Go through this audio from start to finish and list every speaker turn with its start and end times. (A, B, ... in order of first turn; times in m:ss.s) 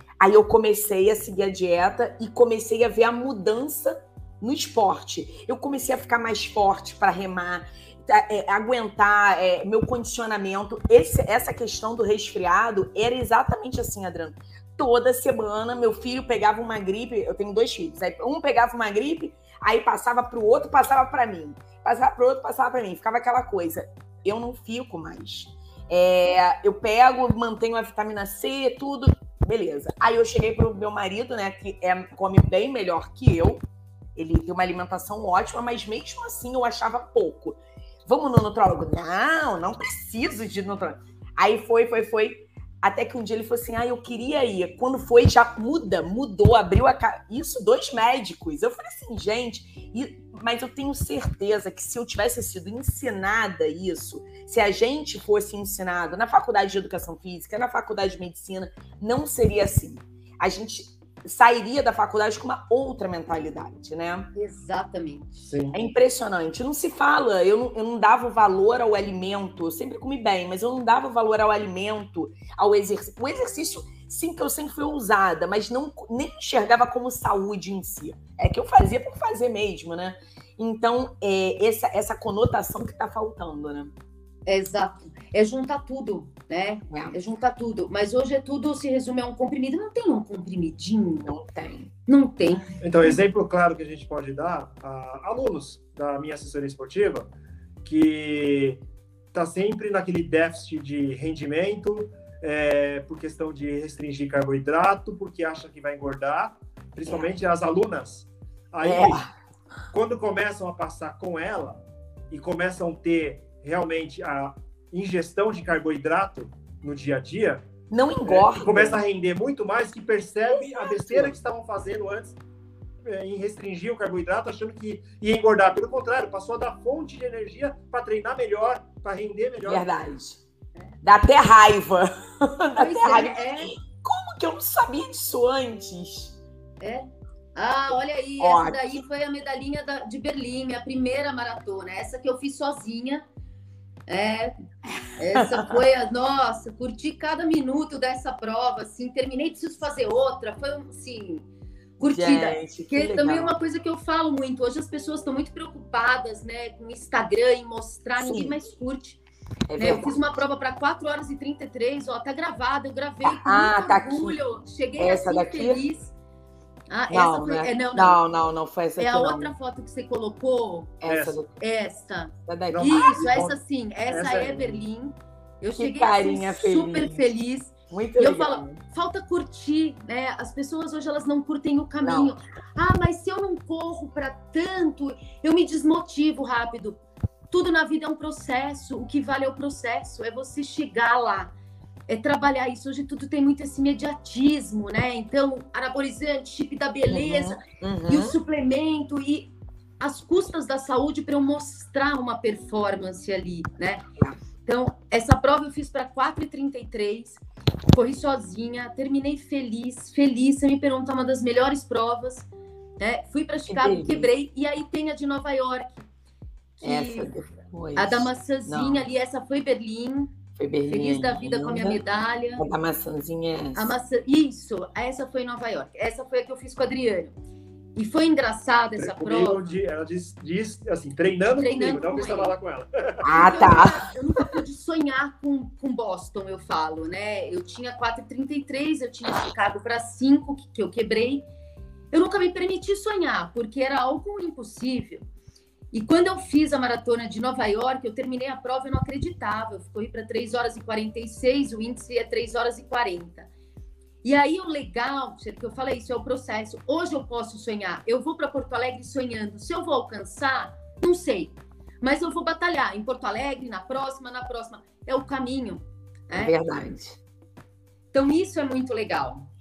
0:00.2-0:33.6 A
0:34.2-1:04.3 A
1:04.3-1:05.4 B
1:05.4-1:05.8 C
1:05.7-1:23.9 A
1:24.4-1:31.3 B
1:26.9-1:27.2 A
1:31.2-1:31.9 A
1:32.1-1:33.2 B
1:32.8-1:37.3 C
1:37.8-1:38.8 C
1:39.3-1:49.2 C
1:48.8-1:49.3 A
1:49.9-1:57.6 C
1:57.9-1:59.0 A
1:58.2-2:02.4 C
2:00.8-2:01.3 A
2:03.0-2:09.9 C
2:09.6-2:10.4 A
2:11.0-2:16.4 A
2:12.8-2:13.7 B
2:16.8-2:23.2 B
2:18.4-2:19.0 A
2:24.1-2:24.5 B
2:24.9-2:25.8 A
2:25.2-2:31.4 B
2:32.0-2:39.2 B
2:32.0-2:33.5 A
2:38.2-2:38.6 A
2:39.7-2:40.2 A
2:39.8-2:46.1 B
2:43.2-2:44.4 A
2:45.0-2:45.8 A
2:46.9-2:48.2 B
2:47.1-2:49.5 A
2:49.0-2:51.0 B
2:51.0-2:51.5 A
2:51.0-2:51.4 C
2:51.6-3:07.0 B
2:52.5-2:53.1 A
2:52.7-2:54.8 C
2:55.8-2:57.2 A
2:57.9-2:58.8 A
3:02.0-3:02.4 A
3:07.5-3:11.5 B
3:12.1-3:24.0 B
3:17.1-3:18.4 A
3:24.6-3:32.5 B
3:33.0-3:36.1 B
3:33.7-3:34.3 A
3:36.8-3:37.3 B
3:36.8-3:39.1 A
3:38.0-3:40.3 B
3:40.6-3:42.0 A
3:40.9-3:42.6 B
3:42.6-3:43.9 A
3:43.7-3:47.3 B
3:47.9-3:49.7 B
3:49.0-3:53.9 C
3:51.5-3:52.5 B
3:53.2-3:54.0 A
3:53.3-4:01.5 B
4:02.1-4:05.2 B
4:05.9-4:13.5 B
4:14.2-4:26.5 B
4:26.3-4:27.2 A
4:28.1-4:29.5 B